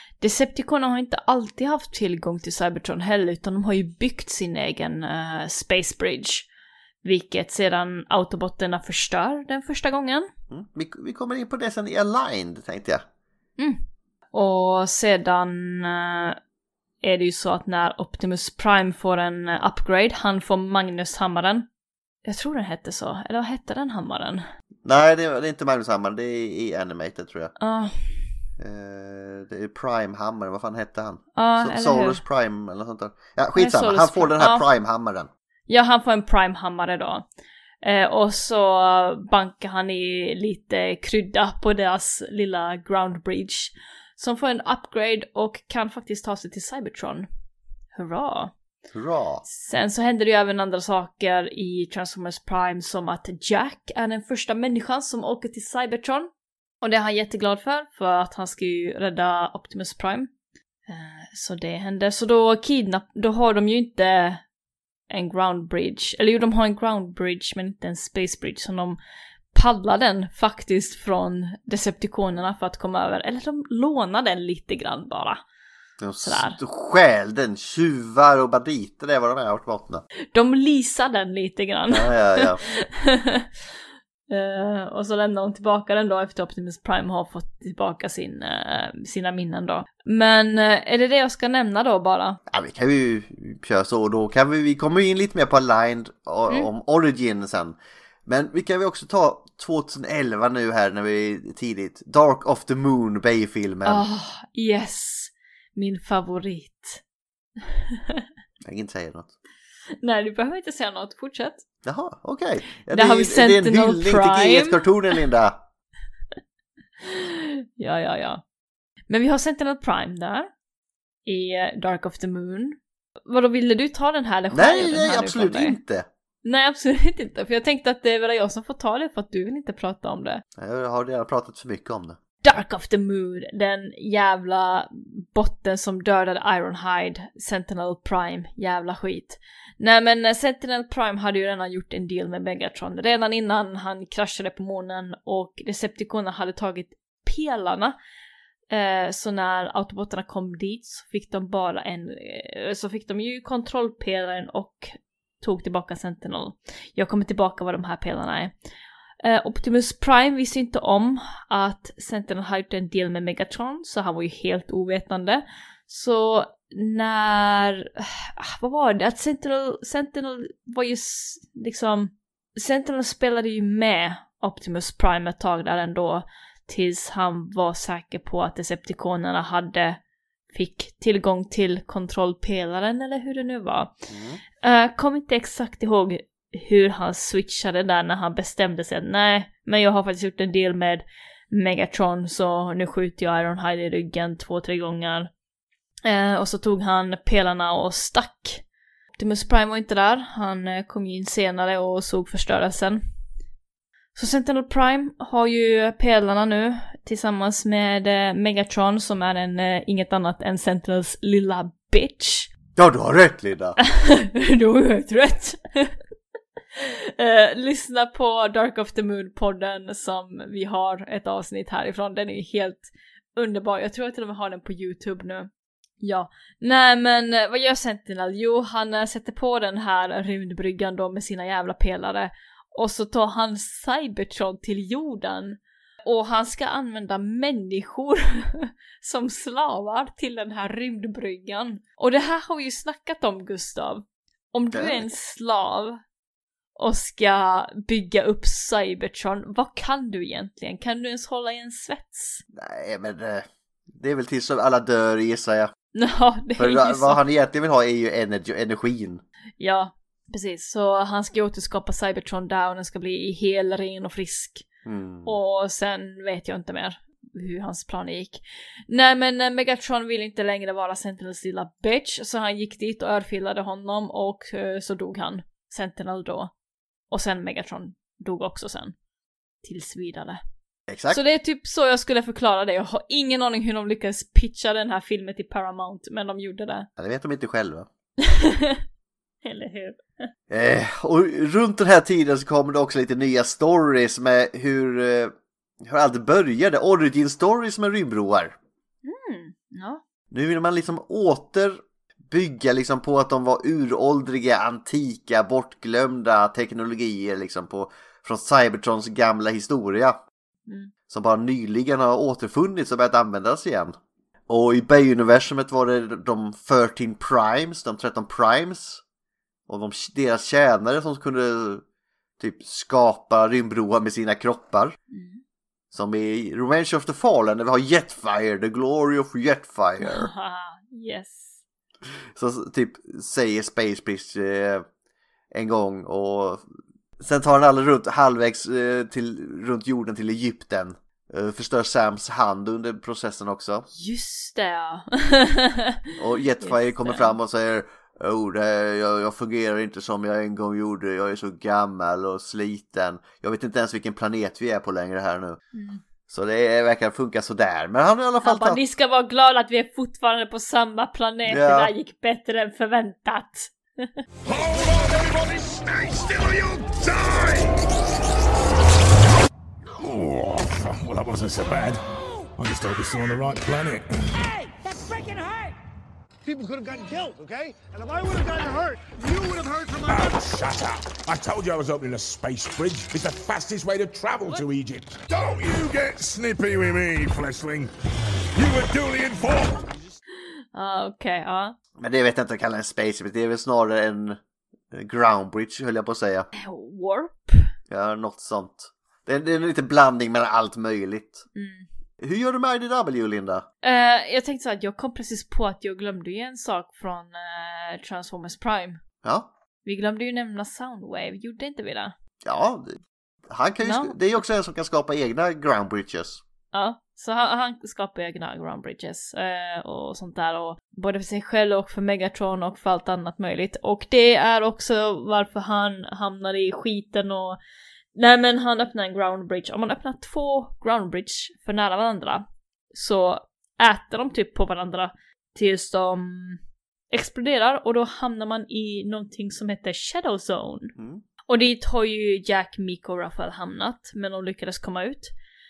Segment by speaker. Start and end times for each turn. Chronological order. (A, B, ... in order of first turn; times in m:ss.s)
0:00.2-0:06.5 A
0:07.0-0:10.3 A
0:10.5-0:13.0 B
0:14.3-0:16.4 A
0:17.0-0:21.7 A
0:22.2-0:24.4 A
0:24.8-0:27.5 B
0:27.6-0:27.9 A
0:28.6-0:35.3 B
0:31.4-0:32.2 A
0:33.6-0:34.6 A
0:35.7-0:37.2 A
0:37.8-0:47.3 A
0:47.9-0:48.5 A
0:48.9-0:49.4 B
0:49.4-0:56.3 A
0:56.8-1:00.3 A
1:00.9-1:04.4 A
1:05.1-1:09.0 A
1:09.5-1:15.4 A
1:16.0-1:20.0 B
1:16.2-1:16.6 A
1:20.3-1:23.5 A
1:21.9-1:22.6 B
1:24.3-1:32.4 A
1:32.5-1:44.0 B
1:43.8-1:47.0 A
1:47.6-1:48.2 A
1:48.6-1:49.3 B
1:50.0-1:51.6 A
1:51.8-1:55.6 B
1:52.9-1:54.8 A
1:57.0-1:58.4 A
1:59.1-2:00.5 A
2:01.2-2:05.8 A
2:04.5-2:06.1 B
2:06.4-2:10.4 A
2:10.6-2:12.2 B
2:12.4-2:28.0 A
2:28.7-2:38.5 A
2:39.2-3:00.0 A
3:00.5-3:03.9 A
3:04.1-3:04.4 B
3:04.6-3:15.3 A
3:16.0-3:18.6 A
3:19.2-3:23.0 A
3:24.1-3:32.5 A
3:32.8-3:33.8 B
3:33.8-3:35.9 A
3:36.8-3:45.5 A
3:46.0-4:06.0 A
4:04.7-4:05.0 B
4:06.8-4:12.4 A
4:12.5-4:15.7 B
4:15.9-4:17.2 A
4:16.6-4:19.2 B
4:19.6-4:24.6 A
4:24.8-4:25.3 B
4:25.2-4:36.5 A
4:37.1-4:38.9 A
4:39.6-4:40.4 A
4:40.9-4:41.2 B
4:41.1-4:46.9 A
4:47.0-4:47.9 B
4:48.2-4:48.8 A
4:49.4-4:50.2 A
4:50.5-4:58.6 B
4:59.0-5:00.0 A
5:00.3-5:10.2 B
5:11.1-5:14.0 B
5:14.5-5:19.0 B
5:19.7-5:21.8 B
5:22.4-5:25.0 B
5:25.1-5:25.4 A
5:25.9-5:30.3 B
5:30.0-5:31.6 A
5:32.3-5:34.8 B
5:35.5-5:36.6 B
5:37.2-5:43.9 B
5:43.9-5:46.0 A
5:46.2-5:55.6 B
5:46.6-5:47.3 A
5:55.7-5:56.0 A
5:56.3-5:58.8 B
5:58.4-6:04.1 A
6:01.5-6:01.9 B
6:04.4-6:07.8 C
6:09.9-6:12.0 C
6:12.6-6:14.2 C
6:14.4-6:15.7 D
6:16.4-6:20.4 D
6:20.0-6:27.9 C
6:28.5-6:29.8 C
6:30.7-6:31.7 A
6:32.0-6:34.4 B
6:34.9-6:36.5 B
6:36.6-6:37.7 A
6:37.9-6:41.4 B
6:41.5-6:41.9 A
6:42.2-6:43.6 B
6:43.8-6:49.0 A
6:49.2-6:49.5 B
6:49.8-6:52.1 A
6:52.4-6:56.4 B
6:53.8-6:54.2 A
6:56.7-7:07.6 A
7:08.1-7:16.6 A
7:17.1-7:20.9 A
7:21.0-7:21.2 B
7:21.5-7:25.3 A